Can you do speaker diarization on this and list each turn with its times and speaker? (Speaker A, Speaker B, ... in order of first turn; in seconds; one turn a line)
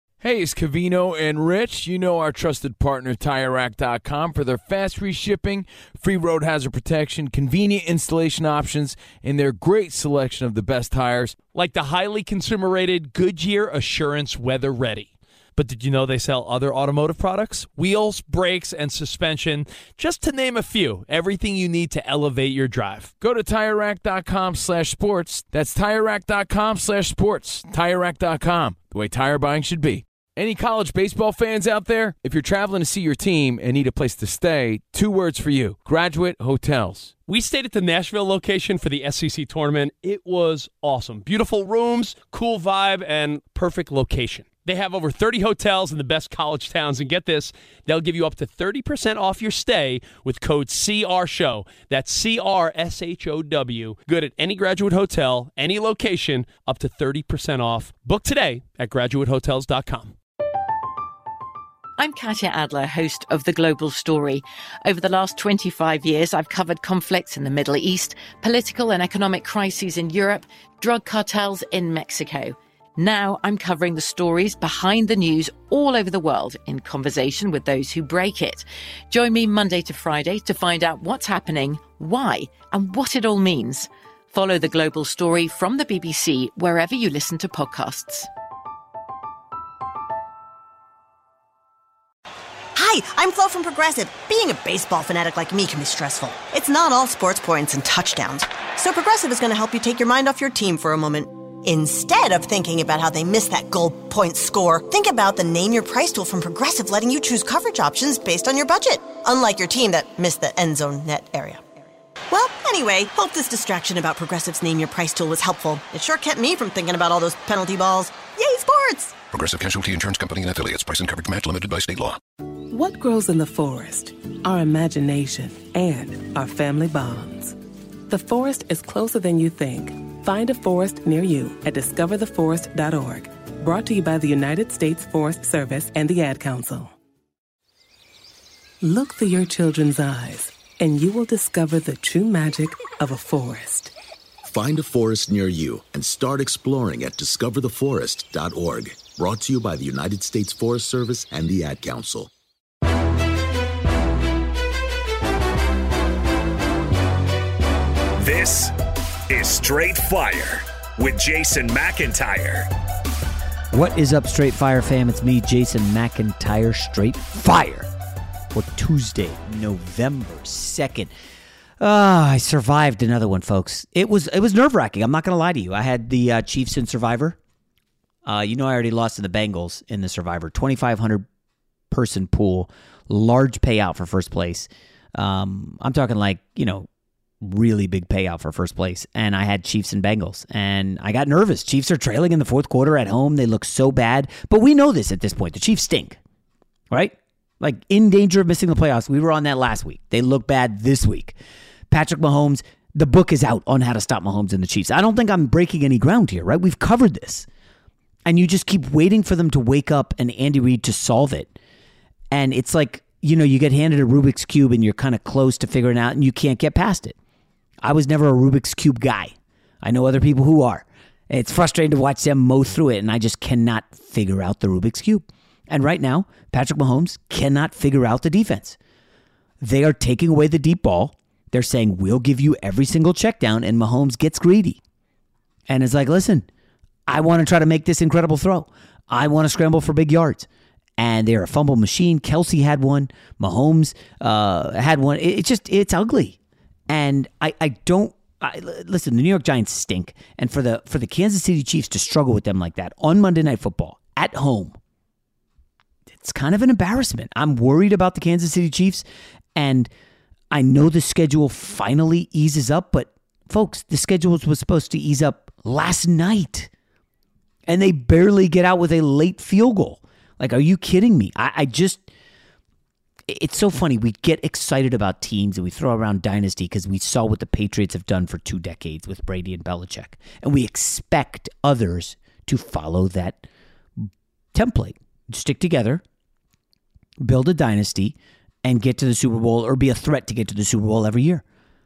Speaker A: 0.2-11.4
Speaker B: 11.5-23.1
Speaker A: 23.2-37.1
Speaker B: 37.3-60.1
Speaker C: 62.0-88.3
Speaker D: 92.8-111.6
Speaker D: 112.3-119.2
Speaker E: 119.3-122.2
Speaker F: 122.7-127.6
Speaker F: 128.1-136.9
Speaker F: 138.8-143.9
Speaker G: 144.4-152.3
Speaker H: 158.2-158.7
Speaker H: 159.3-162.7
Speaker I: 163.7-167.9
Speaker I: 168.5-171.1
Speaker I: 171.8-177.4
Speaker I: 178.2-181.2
Speaker I: 181.9-186.9
Speaker I: 187.4-196.2
Speaker I: 196.9-201.4
Speaker I: 201.9-207.5
Speaker I: 208.2-211.5
Speaker I: 212.3-217.2
Speaker I: 217.8-228.8
Speaker I: 229.6-234.8
Speaker I: 235.7-236.5
Speaker I: 237.1-246.4
Speaker I: 246.9-254.8
Speaker I: 256.1-259.9
Speaker I: 260.5-266.7
Speaker I: 267.7-272.1
Speaker I: 273.3-286.0
Speaker I: 287.2-291.4